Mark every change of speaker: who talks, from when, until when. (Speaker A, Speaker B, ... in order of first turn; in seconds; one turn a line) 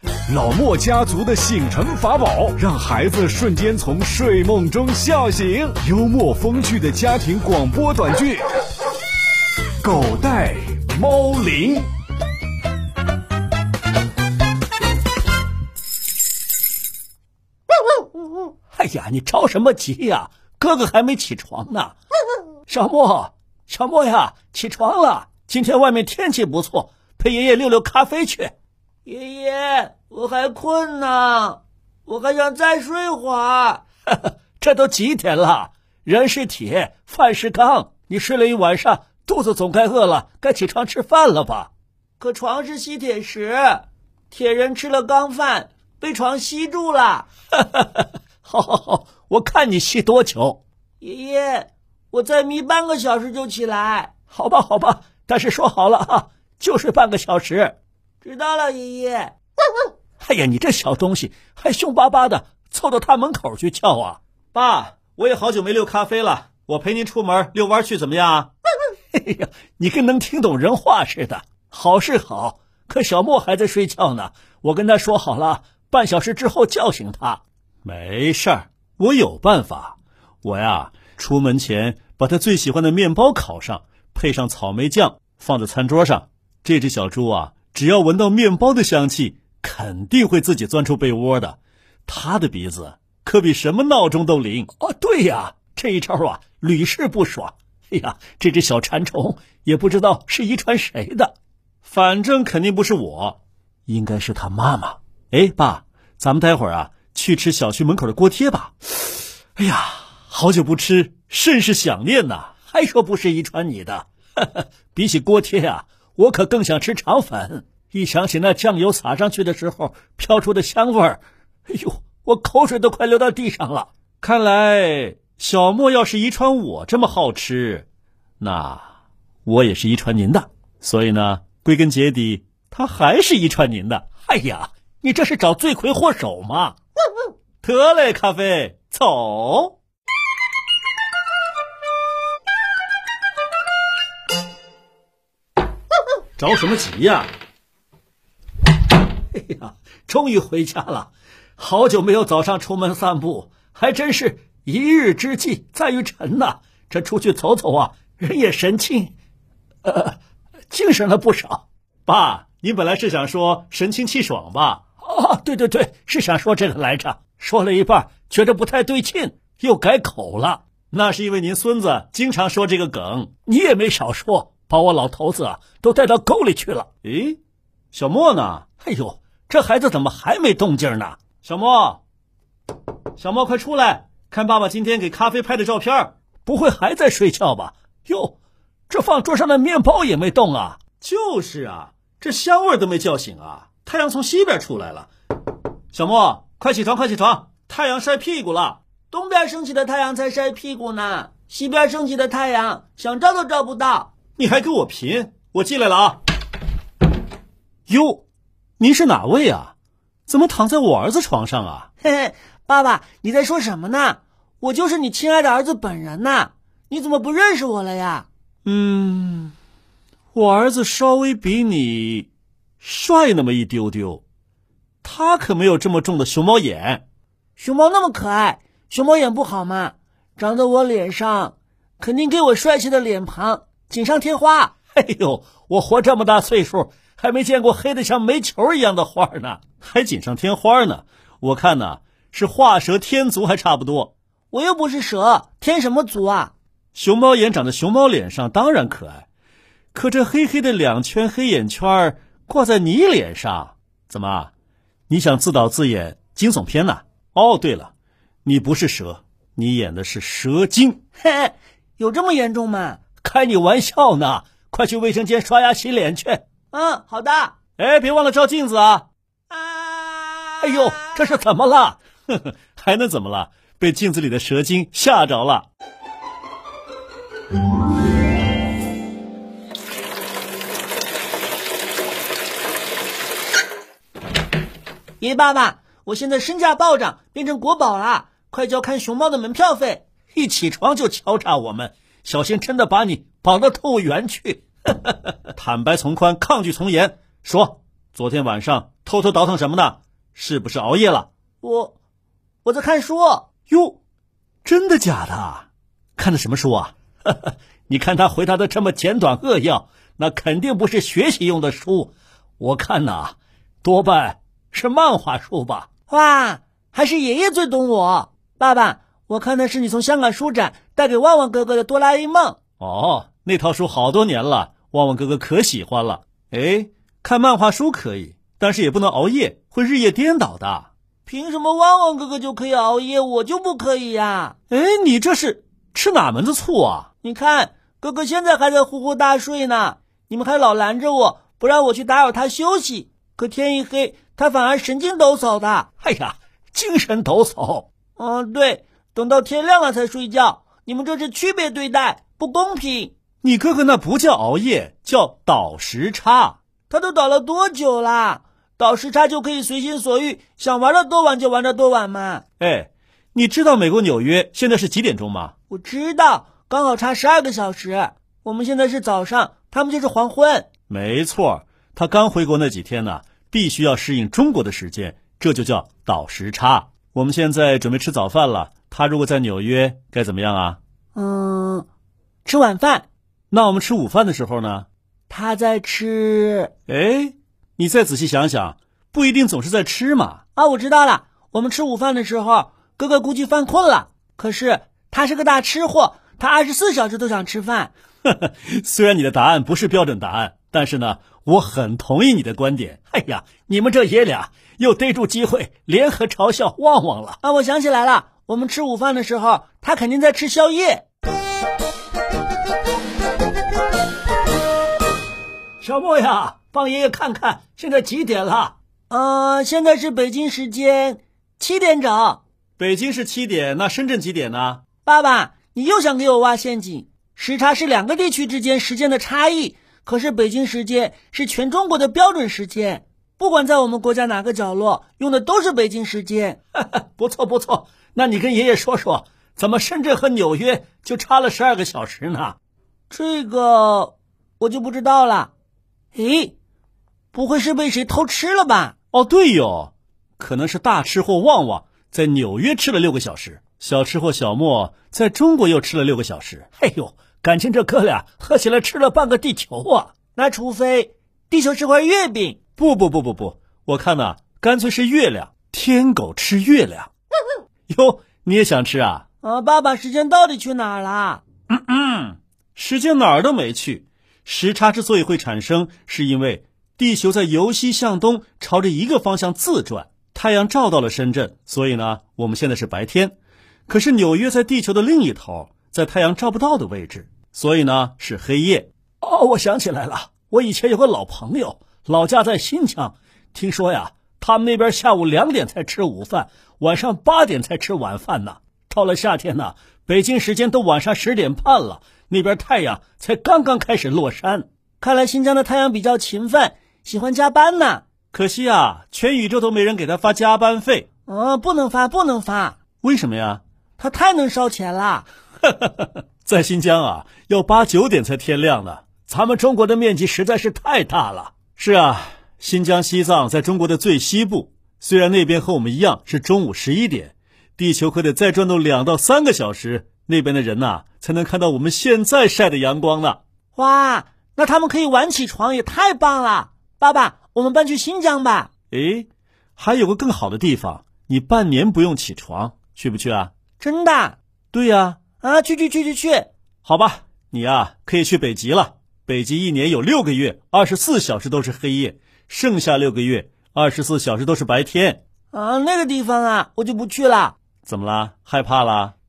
Speaker A: 0.3-8.4
Speaker A: 9.8-11.9
Speaker B: 18.7-21.9
Speaker B: 22.7-28.5
Speaker C: 29.1-33.8
Speaker B: 34.1-41.7
Speaker C: 42.2-47.3
Speaker B: 47.7-50.6
Speaker C: 51.0-54.1
Speaker B: 54.3-57.7
Speaker C: 58.2-59.3
Speaker B: 60.2-64.2
Speaker D: 64.5-68.5
Speaker B: 69.1-77.4
Speaker D: 77.8-94.7
Speaker B: 94.8-101.3
Speaker D: 101.8-112.7
Speaker B: 112.6-114.0
Speaker D: 114.9-118.4
Speaker B: 117.4-123.9
Speaker D: 124.2-127.8
Speaker D: 128.4-128.8
Speaker D: 129.5-134.2
Speaker B: 134.2-136.7
Speaker D: 137.6-139.7
Speaker D: 146.4-147.3
Speaker B: 149.3-159.1
Speaker B: 159.8-160.2
Speaker B: 160.7-161.6
Speaker D: 162.1-164.8
Speaker B: 165.0-170.6
Speaker D: 170.9-173.4
Speaker B: 173.4-176.9
Speaker D: 177.0-177.4
Speaker D: 177.9-178.7
Speaker B: 178.7-181.3
Speaker D: 181.3-182.0
Speaker D: 183.2-186.1
Speaker B: 186.4-188.3
Speaker B: 188.9-190.8
Speaker D: 190.9-195.1
Speaker D: 195.9-198.8
Speaker C: 199.1-204.1
Speaker D: 204.3-206.2
Speaker D: 207.9-208.2
Speaker D: 208.8-209.7
Speaker D: 210.3-211.9
Speaker C: 212.0-218.3
Speaker D: 218.7-219.5
Speaker D: 220.3-222.3
Speaker D: 222.8-224.2
Speaker D: 225.0-227.0
Speaker C: 227.6-234.7
Speaker B: 234.9-239.7
Speaker D: 239.8-244.1
Speaker C: 244.5-246.5
Speaker D: 246.9-249.3
Speaker D: 249.9-254.5
Speaker D: 255.1-257.9
Speaker D: 258.4-261.0
Speaker C: 261.2-263.0
Speaker B: 263.2-266.4
Speaker C: 266.7-267.6
Speaker D: 267.8-269.1
Speaker C: 269.5-271.3
Speaker B: 270.6-272.0
Speaker D: 272.3-275.6
Speaker C: 285.2-290.0
Speaker B: 290.3-294.6
Speaker D: 295.6-301.3
Speaker C: 301.6-301.9
Speaker C: 302.6-303.5
Speaker D: 303.7-304.0
Speaker D: 304.6-306.9
Speaker B: 307.9-315.9
Speaker C: 316.1-322.6
Speaker D: 322.8-330.9
Speaker C: 331.3-334.5
Speaker D: 334.7-337.1
Speaker C: 337.2-345.9
Speaker B: 346.0-347.9
Speaker C: 348.2-353.1
Speaker D: 353.4-356.6
Speaker C: 356.9-362.4
Speaker D: 362.6-365.5
Speaker C: 365.7-370.7
Speaker D: 370.9-380.8
Speaker C: 381.1-381.9
Speaker C: 382.4-383.1
Speaker D: 383.5-384.9
Speaker C: 385.3-386.7
Speaker D: 386.9-390.4
Speaker C: 390.6-397.9
Speaker D: 398.3-403.7
Speaker B: 403.1-407.4
Speaker C: 407.4-411.0
Speaker B: 415.8-418.7
Speaker C: 419.1-422.4
Speaker D: 422.8-424.8
Speaker C: 425.0-436.6
Speaker B: 436.8-442.6
Speaker C: 443.1-445.5
Speaker C: 446.1-446.5
Speaker C: 447.3-448.9
Speaker D: 449.1-456.7
Speaker B: 456.7-460.1
Speaker C: 460.4-462.6
Speaker D: 462.8-467.1
Speaker D: 467.9-469.2
Speaker C: 469.4-471.4
Speaker D: 471.7-483.4
Speaker D: 483.9-488.9
Speaker B: 489.2-504.7
Speaker C: 505.0-508.1
Speaker D: 508.3-511.1
Speaker C: 511.3-512.8
Speaker D: 513.0-513.6
Speaker C: 514.0-515.3
Speaker D: 516.5-533.4
Speaker C: 533.7-538.7
Speaker D: 538.9-543.5
Speaker C: 543.8-544.4
Speaker D: 544.7-545.2
Speaker C: 545.4-546.5
Speaker D: 546.8-555.2
Speaker C: 555.5-557.5
Speaker D: 557.9-559.1